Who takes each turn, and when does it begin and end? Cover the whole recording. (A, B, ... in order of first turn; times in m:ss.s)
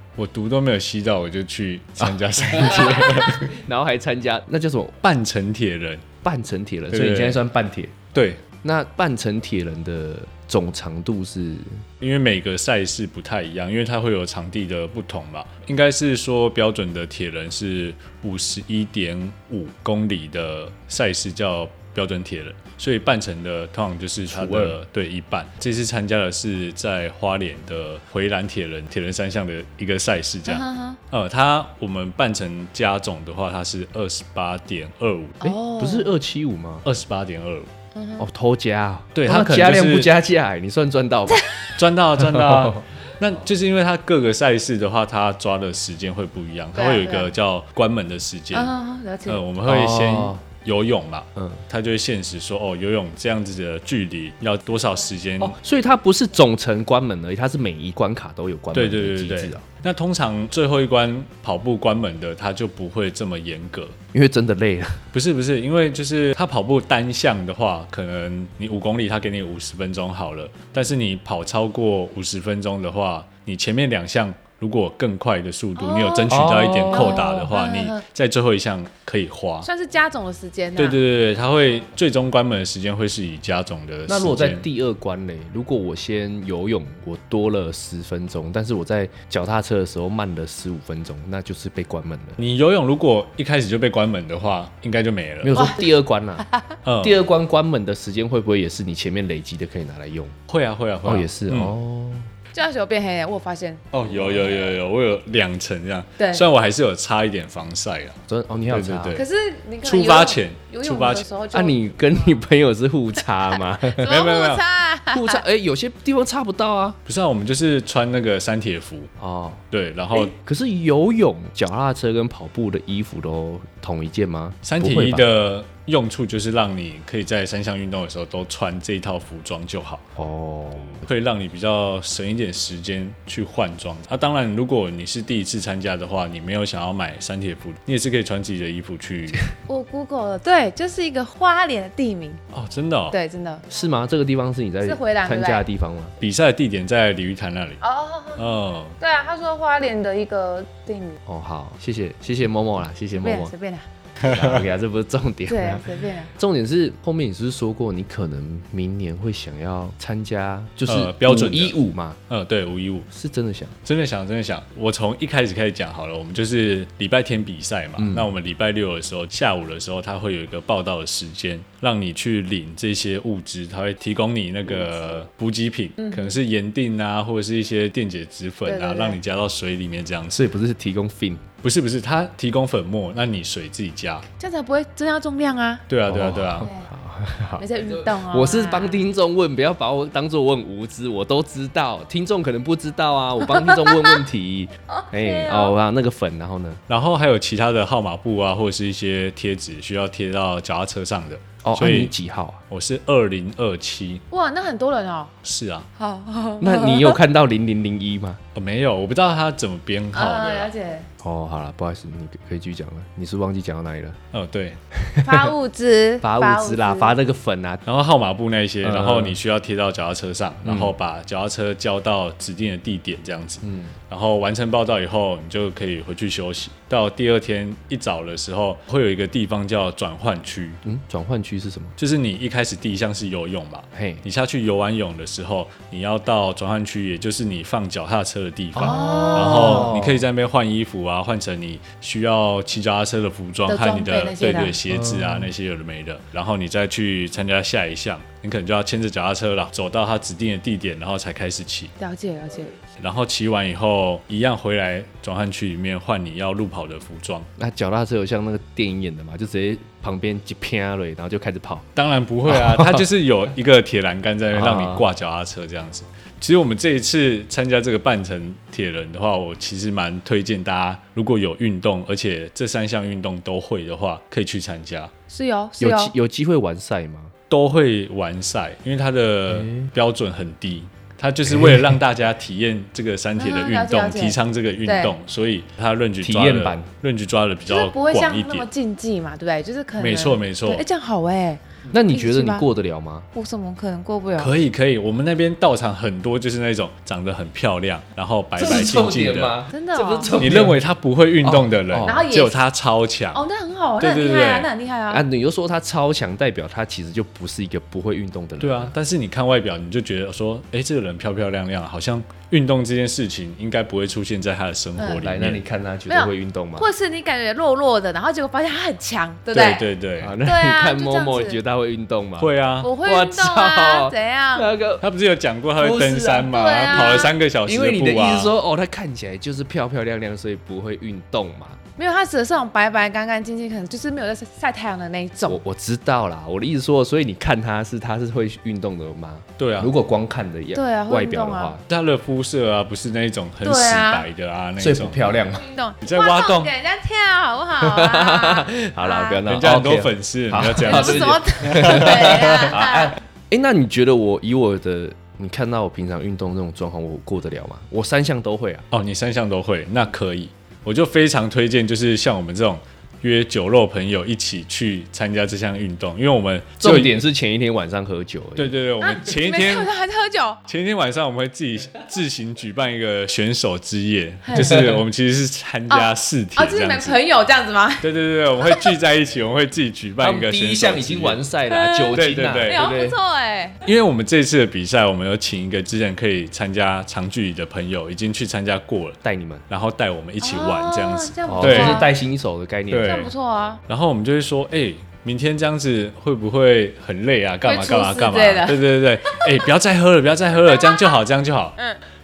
0:00.2-0:03.5 A
0:02.0-0:05.0 B
0:05.0-0:06.1 A
0:06.2-0:07.9 B
0:06.9-0:07.4 A
0:08.1-0:08.4 A
0:08.6-0:11.8 B
0:12.0-0:35.6 A
0:24.3-0:24.8 B
0:30.5-0:31.0 C
0:35.4-0:36.1 C
0:35.6-0:36.8 B
0:36.8-0:37.7 A
0:37.9-0:38.2 C
0:38.2-0:41.4 B
0:39.1-0:40.1 A
0:41.8-0:48.7 A
0:42.2-0:42.8 B
0:46.7-0:47.3 C
0:48.5-0:49.4 C
0:49.2-0:55.6 A
0:49.6-0:50.4 B
0:51.4-0:51.6 B
0:55.4-0:59.6 B
0:58.7-1:04.0 A
1:04.1-1:05.1 B
1:05.1-1:19.7 A
1:15.8-1:18.0 C
1:16.3-1:17.3 B
1:19.6-1:21.0 C
1:20.8-1:24.6 A
1:24.1-1:32.4 B
1:32.4-1:35.5 A
1:35.4-1:36.4 B
1:35.5-1:36.8 C
1:36.8-1:37.2 A
1:37.0-1:40.3 B
1:40.5-1:41.7 A
1:41.0-1:42.3 B
1:42.5-1:43.8 C
1:43.9-1:48.2 A
1:44.1-1:44.6 B
1:46.2-1:46.4 C
1:48.3-1:49.2 B
1:48.7-1:49.2 A
1:49.1-1:52.4 C
1:49.8-1:51.2 A
1:51.5-1:54.1 B
1:54.0-1:55.4 C
1:54.0-1:54.6 A
1:55.1-1:57.0 B
1:57.0-1:59.1 A
1:59.2-1:59.6 B
1:59.7-2:00.3 A
2:00.3-2:05.2 B
2:04.6-2:10.0 A
2:10.2-2:11.1 B
2:11.0-2:19.4 A
2:19.7-2:22.4 C
2:22.5-2:23.2 A
2:23.1-2:23.6 C
2:23.7-2:26.2 B
2:24.8-2:25.6 C
2:26.2-2:27.8 A
2:27.8-2:28.5 C
2:28.4-2:29.0 A
2:29.0-2:31.2 C
2:31.2-2:33.5 B
2:33.2-2:33.8 C
2:34.2-2:42.2 B
2:34.2-2:34.6 A
2:35.5-2:36.3 C
2:40.9-2:41.8 A
2:42.3-2:43.1 A
2:43.1-2:43.8 B
2:43.8-3:00.4 A
2:48.0-2:48.3 B
2:56.0-2:56.4 C
2:58.6-2:59.2 C
3:00.3-3:01.4 B
3:01.6-3:04.2 A
3:04.4-3:05.8 C
3:05.9-3:06.7 A
3:06.1-3:16.8 B
3:06.6-3:06.9 C
3:07.6-3:09.1 C
3:14.9-3:15.7 C
3:16.9-3:22.1 A
3:21.6-3:22.6 B
3:22.7-3:24.2 A
3:24.3-3:25.3 C
3:25.4-3:25.9 A
3:26.0-3:27.2 C
3:26.6-3:28.4 B
3:28.5-3:30.7 A
3:30.1-3:31.1 C
3:31.2-3:34.2 B
3:34.3-3:34.8 A
3:35.0-3:35.5 B
3:35.2-3:37.1 C
3:36.2-3:37.8 B
3:37.8-3:50.8 A
3:38.8-3:39.4 B
3:40.6-3:40.9 B
3:43.6-3:44.0 B
3:50.8-3:52.0 B
3:52.0-4:11.9 A
3:53.9-3:54.2 B
3:58.7-4:00.2 B
3:58.8-3:59.9 C
4:03.7-4:04.8 C
4:04.9-4:05.5 B
4:12.0-4:12.7 C
4:13.0-4:17.5 A
4:17.6-4:21.9 B
4:22.0-4:35.1 A
4:22.5-4:23.0 B
4:24.5-4:25.0 B
4:35.3-4:36.1 C
4:35.8-4:37.3 B
4:37.5-4:48.7 A
4:39.5-4:39.9 B
4:41.5-4:42.0 B
4:43.4-4:45.1 C
4:46.2-4:46.9 B
4:47.7-4:52.7 C
4:50.0-4:50.8 A
4:51.9-4:53.3 B
4:53.3-4:54.5 C
4:54.4-4:59.6 A
4:58.6-5:00.8 B
4:59.7-5:00.3 C
5:00.4-5:03.4 A
5:01.4-5:02.2 B
5:02.0-5:02.6 C
5:03.3-5:05.2 C
5:04.0-5:04.7 A
5:05.1-5:08.9 B
5:08.6-5:15.6 A
5:15.0-5:15.3 C
5:15.2-5:16.9 B
5:16.1-5:21.6 C
5:19.5-5:20.3 A
5:20.2-5:22.5 B
5:22.4-5:22.9 A
5:22.8-5:24.7 C
5:23.0-5:25.0 B
5:25.0-5:28.5 A
5:25.8-5:31.8 B
5:26.5-5:27.3 C
5:32.0-5:35.6 C
5:35.4-5:41.8 B
5:39.6-5:39.9 A
5:40.7-5:41.8 C
5:41.9-5:45.4 A
5:43.6-5:44.2 C
5:44.8-5:45.6 B
5:45.5-5:49.4 C
5:46.0-5:46.7 A
5:47.8-5:58.9 B
5:49.4-5:52.8 A
5:50.8-5:53.1 C
5:58.9-6:07.1 A
6:06.8-6:08.7 B
6:08.6-6:09.9 A
6:09.0-6:10.6 C
6:10.7-6:17.2 A
6:14.4-6:14.8 C
6:14.5-6:15.0 B
6:15.9-6:18.0 C
6:18.0-6:21.4 A
6:18.6-6:18.9 C
6:20.2-6:23.2 B
6:21.7-6:22.1 C
6:22.1-6:22.8 A
6:22.6-6:23.8 C
6:23.8-6:32.1 A
6:29.2-6:29.6 B
6:30.4-6:32.1 C
6:31.5-6:33.2 B
6:32.9-6:33.3 A
6:33.0-6:33.8 C
6:33.9-6:41.8 A
6:37.6-6:39.6 C
6:40.7-6:41.2 C